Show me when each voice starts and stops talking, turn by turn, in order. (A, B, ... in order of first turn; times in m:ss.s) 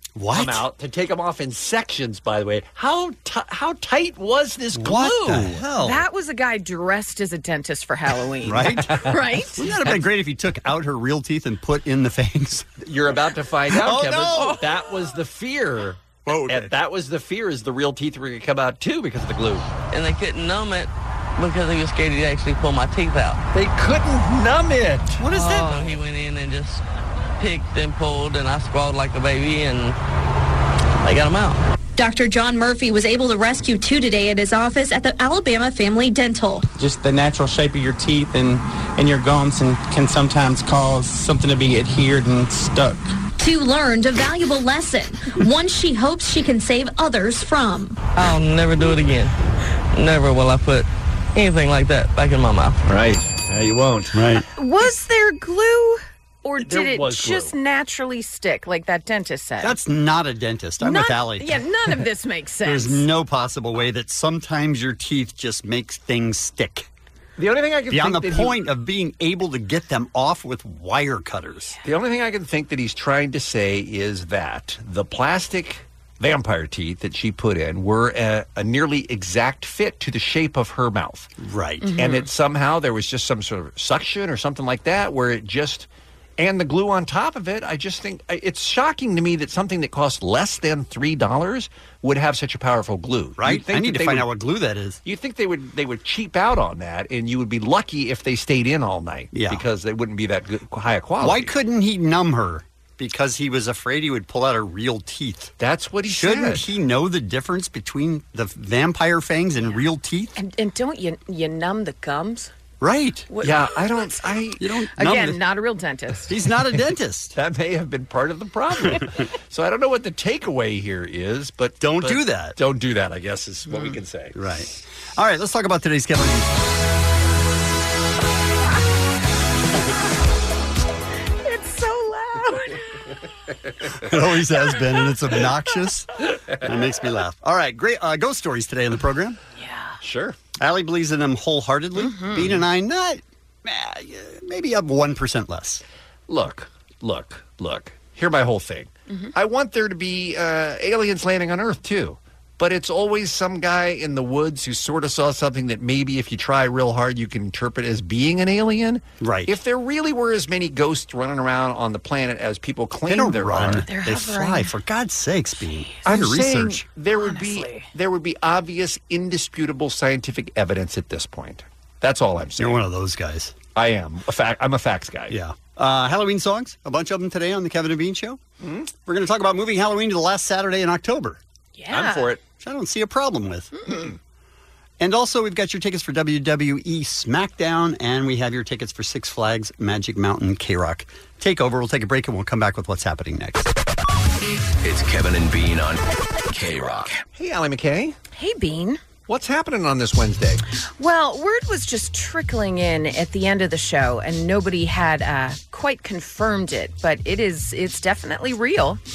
0:00.2-0:00.7 A
0:00.3-0:06.0 B
0:04.7-0:06.0 A
0:05.8-0:09.6 C
0:08.4-0:09.0 A
0:09.6-0:12.7 A
0:12.8-0:19.7 B
0:13.7-0:14.6 A
0:16.3-0:16.7 A
0:19.9-0:23.4 D
0:23.5-0:25.2 B
0:25.2-0:25.9 A
0:25.3-0:26.8 D
0:27.4-0:30.0 D
0:31.0-0:31.6 D
0:32.0-0:36.7 E
0:36.8-0:43.0 F
0:43.4-0:48.0 E
0:48.2-0:49.3 D
0:49.9-0:52.8 D
0:52.9-0:54.2 B
0:54.1-0:54.5 A
0:54.6-0:59.8 C
0:56.6-0:57.5 B
0:59.6-1:02.0 A
1:00.8-1:03.1 C
1:02.6-1:06.9 A
1:07.4-1:08.6 B
1:07.9-1:11.8 A
1:11.8-1:21.3 B
1:21.4-1:21.9 A
1:21.8-1:22.3 C
1:22.0-1:34.3 B
1:33.4-1:35.0 A
1:35.0-1:41.5 B
1:39.3-1:39.6 A
1:41.2-1:45.5 A
1:45.6-1:46.7 B
1:46.1-1:50.4 A
1:50.4-1:52.5 C
1:52.8-1:53.3 A
1:53.3-1:54.3 C
1:53.4-1:54.6 B
1:54.6-1:55.4 A
1:55.0-1:56.3 C
1:56.3-1:57.3 A
1:57.4-2:04.4 B
2:01.8-2:02.6 A
2:04.4-2:06.6 A
2:11.4-2:12.8 C
2:14.0-2:19.4 A
2:19.6-2:20.0 C
2:20.0-2:20.4 B
2:20.6-2:25.8 A
2:22.0-2:22.6 C
2:26.3-2:43.9 B
2:39.2-2:39.6 A
2:43.1-2:46.9 A
2:43.8-2:44.8 C
2:46.1-2:52.8 B
2:47.2-2:47.9 C
2:52.6-2:53.5 A
2:53.7-2:55.4 B
2:55.3-2:58.4 A
2:58.6-2:58.9 B
2:59.0-3:01.4 A
3:01.8-3:02.3 C
3:01.9-3:02.4 B
3:02.6-3:03.7 A
3:03.8-3:04.1 C
3:05.0-3:13.7 A
3:14.8-3:17.1 G
3:17.3-3:18.2 B
3:18.3-3:19.0 C
3:19.3-3:20.6 B
3:21.0-3:29.0 C